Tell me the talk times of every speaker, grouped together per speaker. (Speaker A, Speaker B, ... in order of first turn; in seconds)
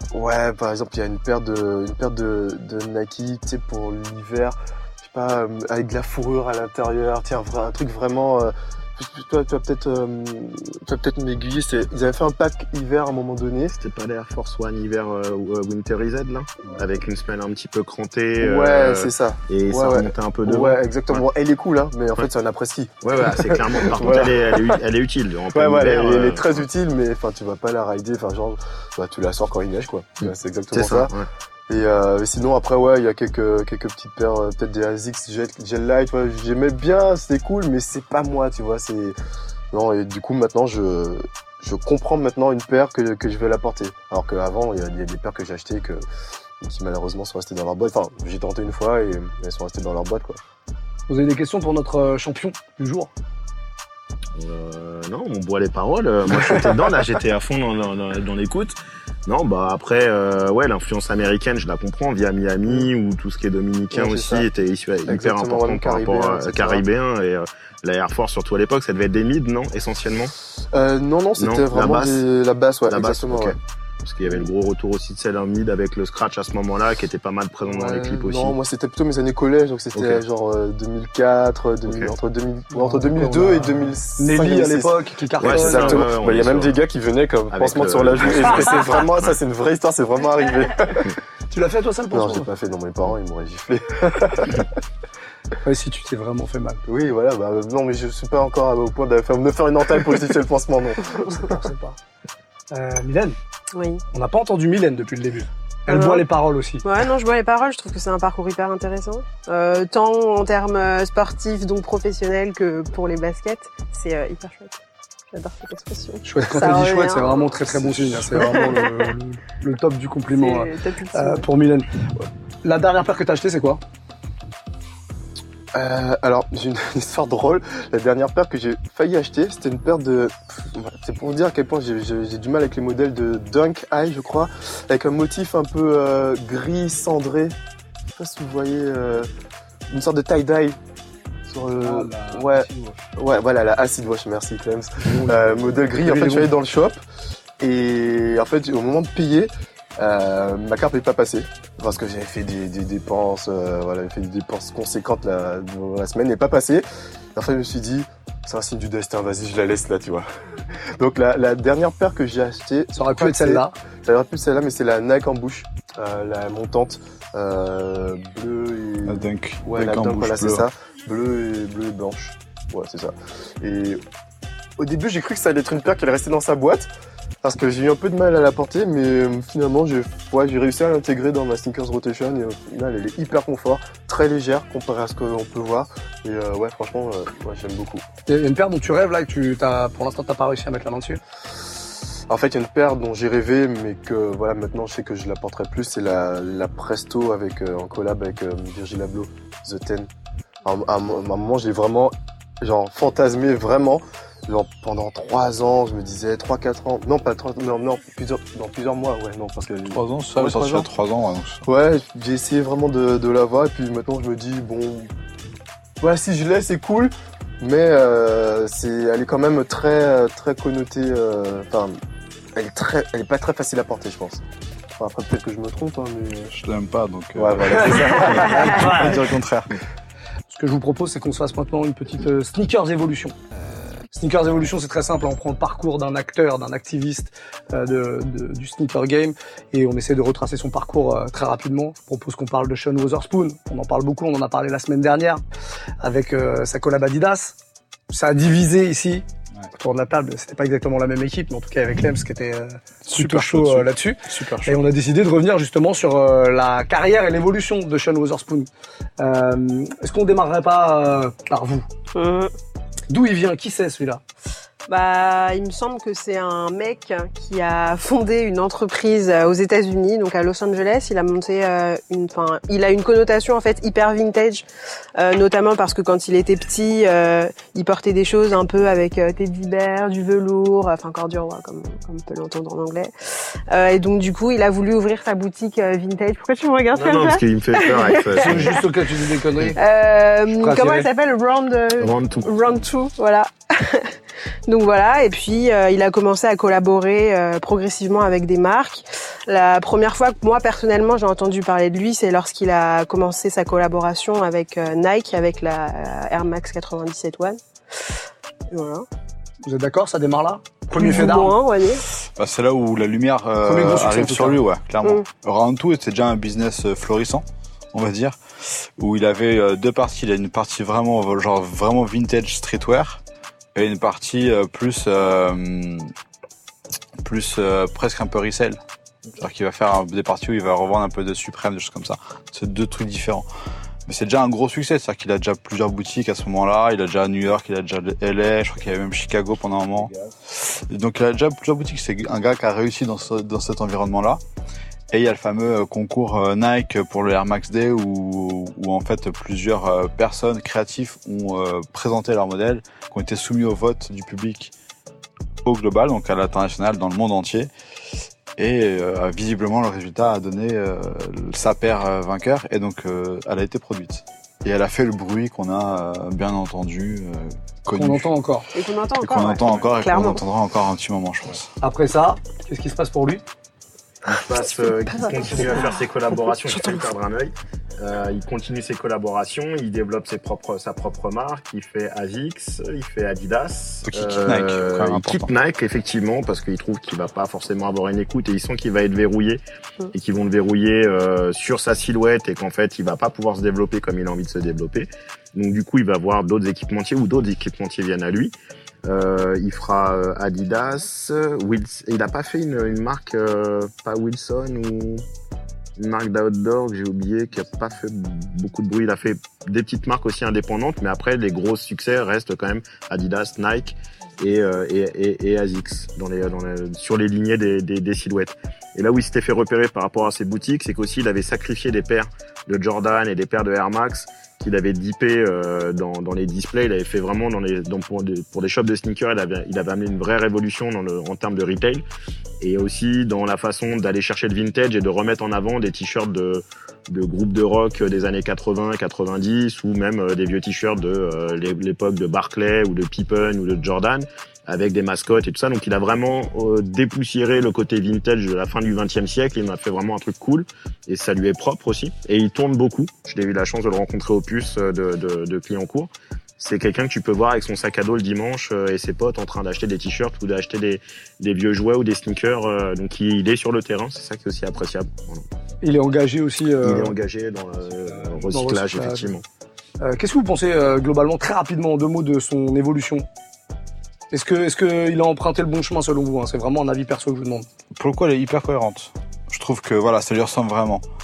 Speaker A: 0.1-13.8, 18.4-24.8, 25.5-31.1, 31.7-39.1, 39.7-46.0, 46.6-50.4, 63.9-64.5, 65.1-66.8, 70.7-73.6, 77.7-91.1, 92.1-94.7, 96.9-101.6, 117.7-118.8, 125.7-137.6, 138.1-139.3, 139.9-140.8, 141.5-147.0, 147.6-174.0, 174.8-176.9, 177.4-188.0, 192.3-200.1, 200.6-210.9, 211.6-215.1, 216.0-222.0, 222.6-224.4, 225.0-226.6, 227.4-228.8
Speaker B: 13.8-21.2, 23.0-26.6, 30.7-31.3, 54.4-70.3, 71.4-72.2, 72.9-78.6, 79.9-80.2, 81.9-82.1, 85.4-86.8, 87.5-89.3, 286.9-288.8, 292.0-292.8, 374.2-389.6, 390.1-398.5, 399.1-405.2, 406.0-432.0, 432.6-465.4, 466.8-469.4
Speaker C: 51.1-53.1, 82.7-86.0, 91.5-92.5, 95.6-96.8, 101.4-102.0, 102.7-103.4, 104.1-106.8, 116.2-123.8, 141.8-143.0, 145.0-146.5, 162.9-163.7, 188.3-191.2, 227.9-229.2, 230.5-233.3, 234.1-245.4, 246.0-247.6, 248.1-249.2, 249.8-258.7, 259.2-261.9, 263.1-264.2, 288.3-289.8, 290.6-291.1, 309.6-311.6, 313.6-314.6, 367.9-368.7, 371.8-373.4, 465.8-467.1, 468.5-469.3, 470.0-473.3, 474.3-477.6
Speaker D: 103.7-104.0, 105.9-106.2, 106.8-114.8, 115.3-117.5, 118.4-119.1, 120.3-121.5, 262.1-262.5, 264.9-274.6, 275.2-288.8, 289.8-294.1, 294.7-307.6, 308.7-309.1, 310.9-312.0, 368.7-370.4, 374.8-376.0, 376.7-377.1
Speaker E: 169.1-170.7, 209.9-211.6, 226.5-229.7, 253.1-254.8, 312.4-323.2, 323.8-326.1, 327.2-328.8, 329.3-333.4, 334.1-344.4, 345.1-354.7, 355.6-357.7, 358.6-368.3, 369.2-371.7, 384.1-385.5, 477.9-481.0